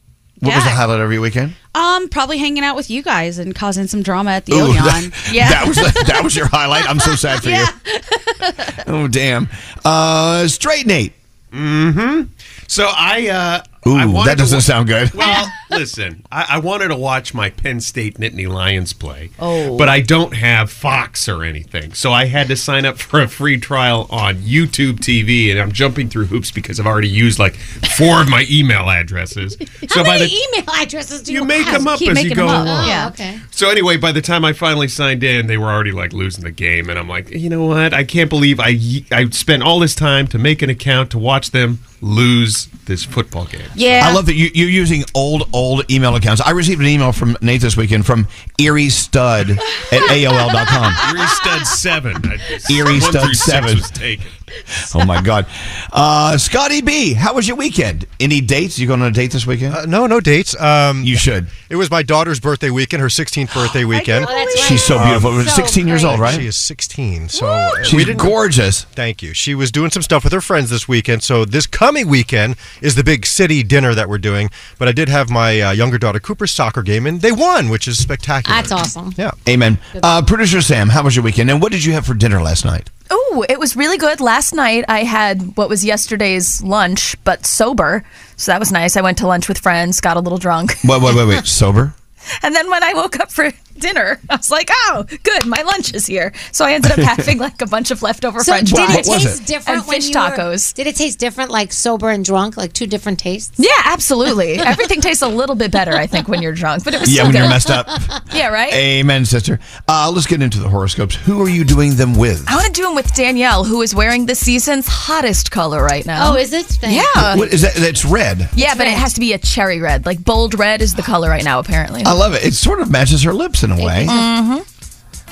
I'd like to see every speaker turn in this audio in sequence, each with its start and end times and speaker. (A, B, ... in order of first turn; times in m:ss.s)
0:00.4-0:01.6 A
0:00.4-0:00.8 B
0:01.7-0:05.9 B
0:04.5-0:07.7 A
0:08.8-0:11.2 A
0:11.5-0:30.4 C
0:13.8-0:15.4 A
0:19.5-0:19.8 B
0:29.8-0:33.4 D
0:31.3-0:32.9 C
0:31.8-0:33.0 B
0:32.7-0:33.1 E
0:33.5-0:43.8 C
0:43.8-0:44.2 B
0:44.0-0:51.1 A
0:51.0-0:54.4 C
0:52.7-0:53.9 A
0:54.9-0:59.8 A
0:59.7-1:04.3 F
1:01.0-1:01.5 A
1:03.5-1:06.4 D
1:04.2-1:04.5 B
1:04.2-1:04.6 E
1:04.6-1:06.5 A
1:05.0-1:08.4 F
1:07.8-1:08.8 A
1:08.9-1:19.4 F
1:18.4-1:19.2 D
1:19.4-1:22.9 A
1:23.1-1:31.4 E
1:30.8-1:32.0 A
1:32.4-1:40.7 E
1:36.9-1:37.2 A
1:38.4-1:43.6 D
1:38.7-1:39.4 A
1:43.6-1:47.8 E
1:47.1-1:48.1 A
1:47.4-1:47.8 D
1:48.3-1:48.8 E
1:48.7-1:52.5 A
1:52.5-1:57.5 E
1:56.2-1:57.2 D
1:57.2-1:58.5 A
1:58.6-2:02.2 E
2:02.0-2:04.2 A
2:03.8-2:04.6 E